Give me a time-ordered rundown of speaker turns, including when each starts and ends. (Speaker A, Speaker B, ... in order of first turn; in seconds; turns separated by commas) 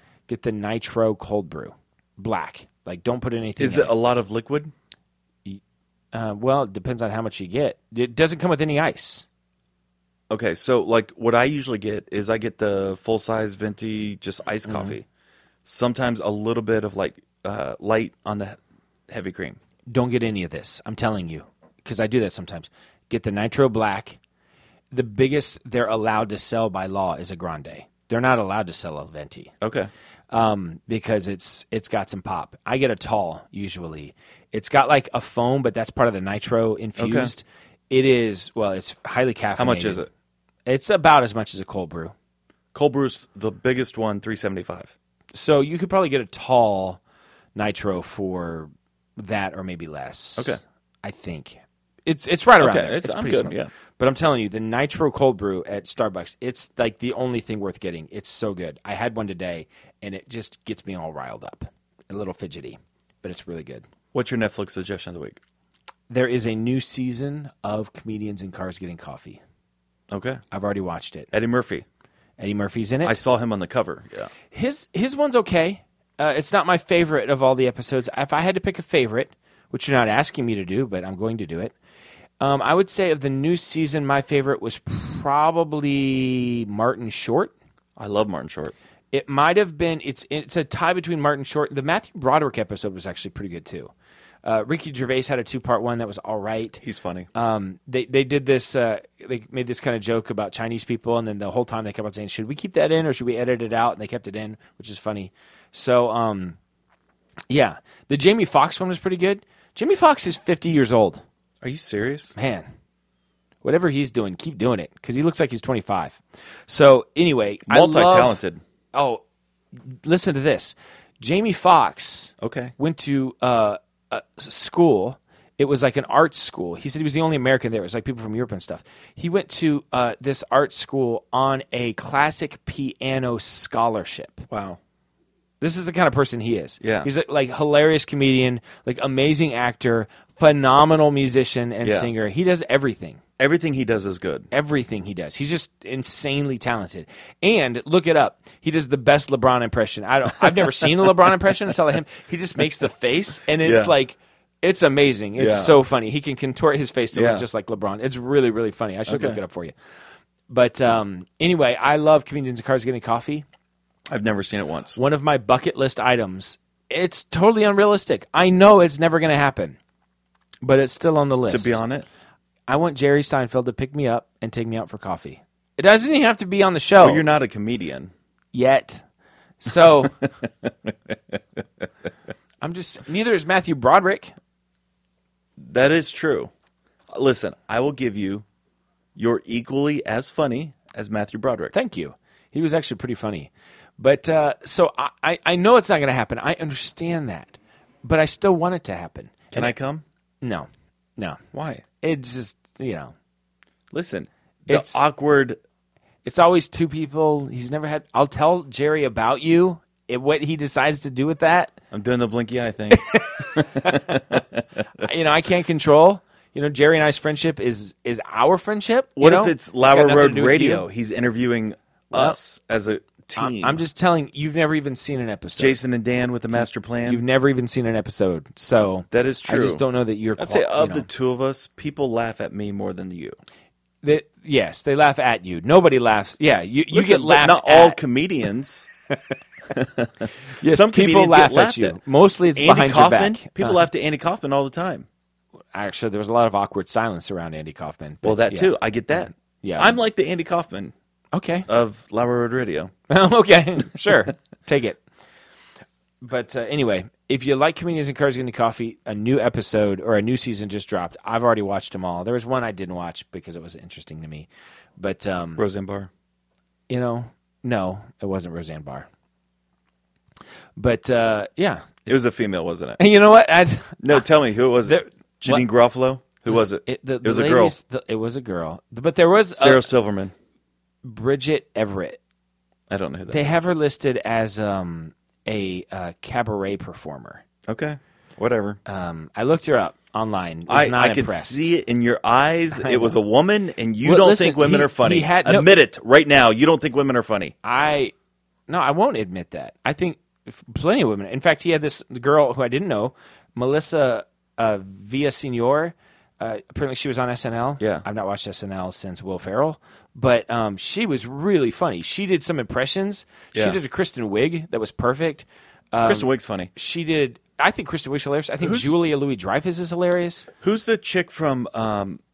Speaker A: 0.3-3.9, Speaker B: 3.6-4.7, Speaker A: 6.1-9.3, Speaker B: 10.3-15.1, Speaker A: 14.7-15.0, Speaker B: 15.6-19.6, Speaker A: 19.9-24.2, Speaker A: 24.9-29.5, Speaker B: 29.6-29.9, Speaker A: 30.3-40.0, Speaker B: 37.0-37.3, Speaker B: 39.6-40.1, Speaker A: 40.6-42.1, Speaker B: 42.7-44.9, Speaker A: 45.3-47.0, Speaker A: 47.5-63.9, Speaker B: 52.6-53.7, Speaker B: 64.1-65.4, Speaker A: 66.1-69.4, Speaker B: 70.1-70.4, Speaker A: 70.5-71.3, Speaker B: 71.3-71.8, Speaker A: 72.4-73.2, Speaker B: 73.0-74.3, Speaker A: 74.5-81.7, Speaker A: 82.4-87.5, Speaker B: 88.0-88.7, Speaker A: 89.1-93.9, Speaker A: 94.4-96.8, Speaker B: 96.8-97.3, Speaker A: 97.3-106.6, Speaker A: 107.5-111.2, Speaker B: 111.6-112.3, Speaker A: 112.3-112.7, Speaker A: 113.6-118.4, Speaker B: 117.7-118.6, Speaker A: 118.9-119.2, Speaker A: 119.8-134.5, Speaker B: 122.4-122.7, Speaker B: 134.5-134.8, Speaker A: 135.6-143.2, Speaker B: 136.8-137.1, Speaker B: 141.8-142.1, Speaker B: 143.4-144.5, Speaker A: 144.5-159.7, Speaker B: 150.4-151.1, Speaker B: 153.6-153.9, Speaker B: 155.4-155.8, Speaker B: 157.1-157.4, Speaker B: 159.1-159.4, Speaker A: 160.5-163.4, Speaker B: 164.1-165.0, Speaker A: 165.0-169.8, Speaker A: 170.6-171.8, Speaker B: 171.5-172.1, Speaker A: 172.7-177.2, Speaker B: 177.0-178.1, Speaker A: 178.5-179.0, Speaker A: 179.6-180.2, Speaker B: 180.6-181.8, Speaker A: 182.6-184.3, Speaker B: 185.6-186.5, Speaker B: 187.1-188.4, Speaker B: 189.1-191.7, Speaker A: 191.7-199.7, Speaker B: 199.5-200.0, Speaker A: 200.4-201.4, Speaker B: 201.5-201.8, Speaker A: 202.0-203.1, Speaker B: 203.9-205.6, Speaker A: 204.7-205.1, Speaker A: 206.2-211.7, Speaker B: 211.9-215.0, Speaker A: 212.9-214.4, Speaker A: 214.9-220.8, Speaker B: 219.2-223.8, Speaker A: 222.1-222.4, Speaker A: 223.4-225.8, Speaker B: 225.6-227.2, Speaker A: 226.5-231.1, Speaker B: 229.1-229.8, Speaker B: 230.4-233.4, Speaker A: 234.0-238.0, Speaker B: 236.9-238.9, Speaker B: 239.7-242.0, Speaker A: 240.6-243.8, Speaker B: 242.5-245.1, Speaker A: 245.7-250.0, Speaker B: 248.2-250.9, Speaker A: 251.3-251.7, Speaker B: 251.7-252.9, Speaker A: 253.1-255.0, Speaker A: 256.2-265.6, Speaker B: 265.6-266.1, Speaker A: 266.9-269.1, Speaker A: 270.8-272.2, Speaker B: 272.1-273.0, Speaker A: 273.0-274.2, Speaker B: 274.0-277.8, Speaker A: 274.8-275.7, Speaker A: 276.4-279.9, Speaker B: 279.5-280.3, Speaker A: 281.0-282.2, Speaker B: 282.9-283.7, Speaker A: 283.3-287.4, Speaker B: 287.7-288.8, Speaker A: 288.9-291.7, Speaker B: 290.7-297.5, Speaker A: 292.7-293.2, Speaker A: 294.0-295.8, Speaker A: 297.6-298.1, Speaker A: 298.7-320.5, Speaker B: 307.8-308.0, Speaker B: 316.0-316.7, Speaker B: 318.6-318.9, Speaker B: 320.6-322.2